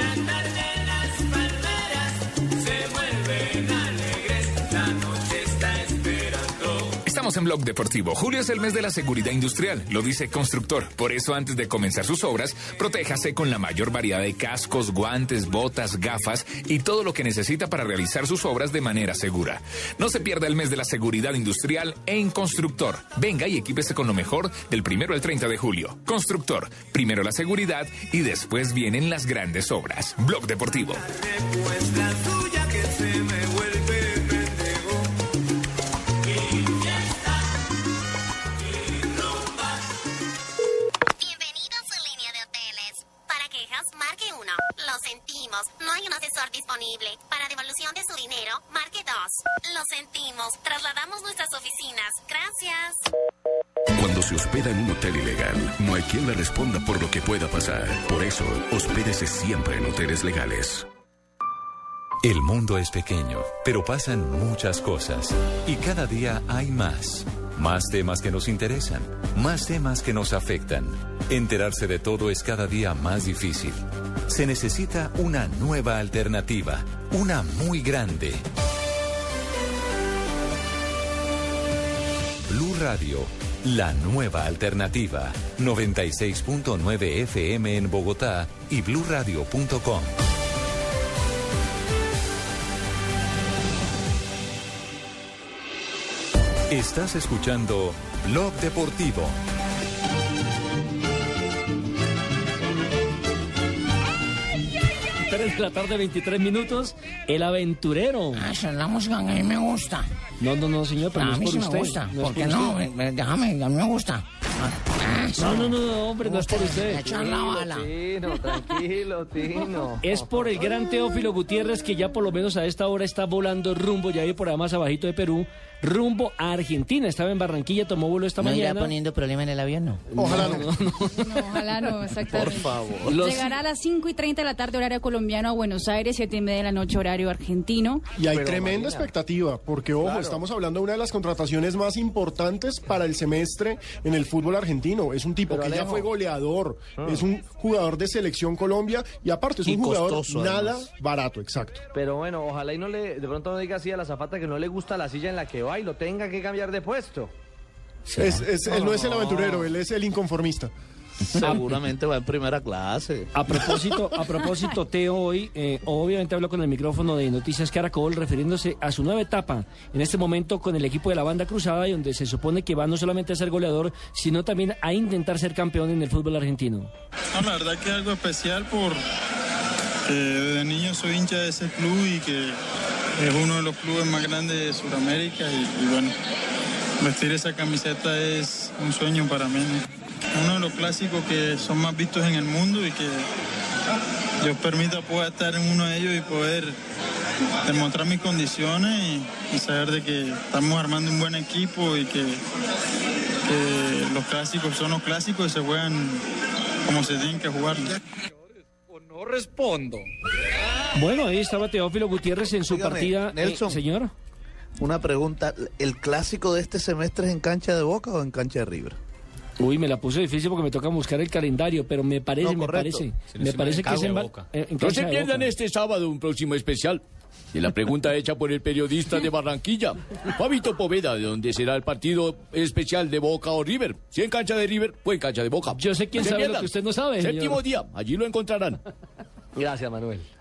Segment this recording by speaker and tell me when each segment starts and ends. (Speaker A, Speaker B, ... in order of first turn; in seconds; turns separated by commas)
Speaker A: 7.0-31.0, Speaker B: 41.2-53.0, Speaker C: 54.0-60.9, Speaker D: 62.2-78.4, Speaker D: 82.4-90.1, Speaker D: 96.7-99.4, Speaker E: 105.3-108.5, Speaker F: 108.4-110.0, Speaker E: 110.4-112.8, Speaker F: 111.2-114.2, Speaker F: 115.0-115.6, Speaker E: 115.4-117.1, Speaker F: 116.5-117.8, Speaker G: 116.9-120.6, Speaker E: 120.0-128.9, Speaker F: 128.4-130.0, Speaker E: 130.1-131.4, Speaker H: 130.2-130.7, Speaker I: 131.2-138.0, Speaker J: 132.3-133.2, Speaker E: 133.1-133.5, Speaker H: 138.2-151.8, Speaker G: 138.3-139.1, Speaker G: 140.0-140.4, Speaker G: 145.5-146.1, Speaker G: 147.0-147.2, Speaker J: 149.6-150.8, Speaker G: 151.9-157.3, Speaker H: 158.2-160.7, Speaker G: 158.6-159.7, Speaker J: 161.3-163.3, Speaker E: 163.3-176.9, Speaker K: 177.3-179.0, Speaker K: 180.1-182.6, Speaker K: 183.2-186.1, Speaker K: 187.0-189.8, Speaker K: 190.3-193.2, Speaker K: 194.4-196.8, Speaker K: 197.6-202.4, Speaker K: 203.5-206.2, Speaker K: 206.9-207.8, Speaker E: 210.9-214.1, Speaker J: 212.7-213.8, Speaker J: 214.8-219.0, Speaker E: 219.6-225.5, Speaker J: 222.4-223.1, Speaker J: 223.8-224.1, Speaker L: 224.8-227.0, Speaker L: 227.5-238.8, Speaker E: 235.7-237.6, Speaker G: 239.6-240.3